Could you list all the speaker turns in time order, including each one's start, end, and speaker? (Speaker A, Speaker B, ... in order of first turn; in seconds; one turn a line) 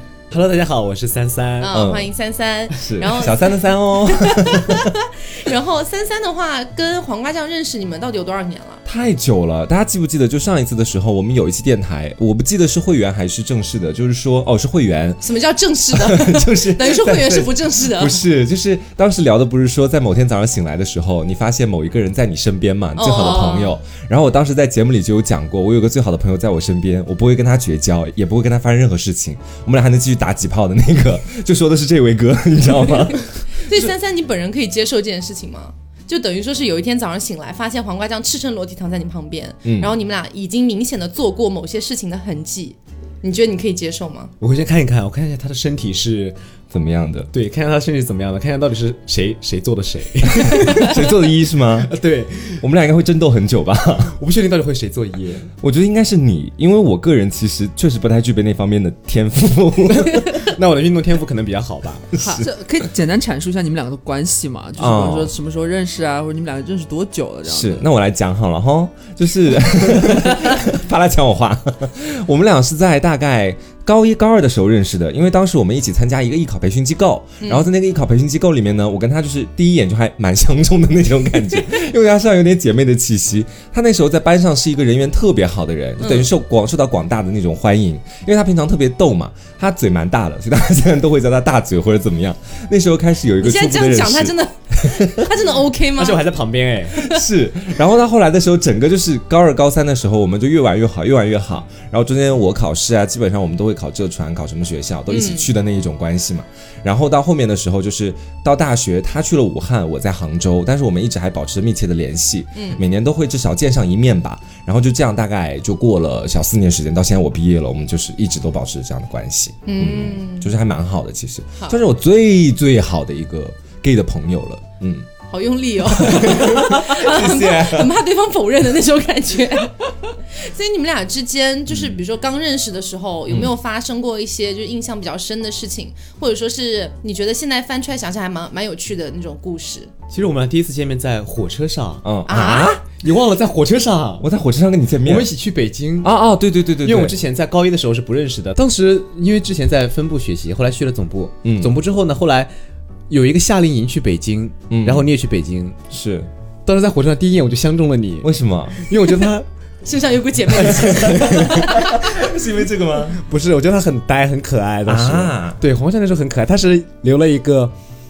Speaker A: 0.3-1.8
Speaker B: 1.6-8.8
Speaker C: 1.7-2.1
Speaker C: 2.7-4.9
Speaker C: 8.8-15.2
Speaker B: 15.2-18.2
Speaker C: 15.9-33.9
Speaker B: 23.0-23.8
Speaker B: 33.6-44.3
Speaker C: 39.6-39.9
Speaker A: 44.4-46.4
Speaker C: 46.7-47.3
Speaker A: 47.3-52.6
Speaker C: 50.3-51.9
Speaker C: 52.6-54.2
Speaker A: 54.0-55.5
Speaker C: 55.6-60.5
Speaker A: 60.1-62.1
Speaker C: 62.1-62.5
Speaker D: 62.2-67.9
Speaker C: 64.8-65.3
Speaker C: 67.5-95.0
Speaker B: 77.4-77.7
Speaker B: 86.0-86.3
Speaker B: 93.4-96.2
Speaker A: 96.0-97.0
Speaker B: 96.9-97.2
Speaker C: 97.0-125.1
Speaker B: 105.1-105.5
Speaker B: 112.5-112.8
Speaker B: 119.7-120.5
Speaker B: 125.2-139.9
Speaker C: 125.9-127.9
Speaker C: 131.7-132.0
Speaker A: 140.1-142.3
Speaker C: 142.0-142.8
Speaker B: 142.2-142.8
Speaker A: 142.9-144.2
Speaker C: 144.2-145.3
Speaker A: 145.0-146.1
Speaker C: 146.0-147.1
Speaker A: 146.8-152.5
Speaker C: 151.4-151.7
Speaker A: 153.1-155.8
Speaker C: 154.7-155.0
Speaker C: 155.9-156.3
Speaker A: 156.7-159.5
Speaker C: 158.2-158.8
Speaker B: 159.8-162.1
Speaker A: 160.5-161.7
Speaker C: 160.8-163.2
Speaker A: 163.2-167.7
Speaker C: 164.8-165.6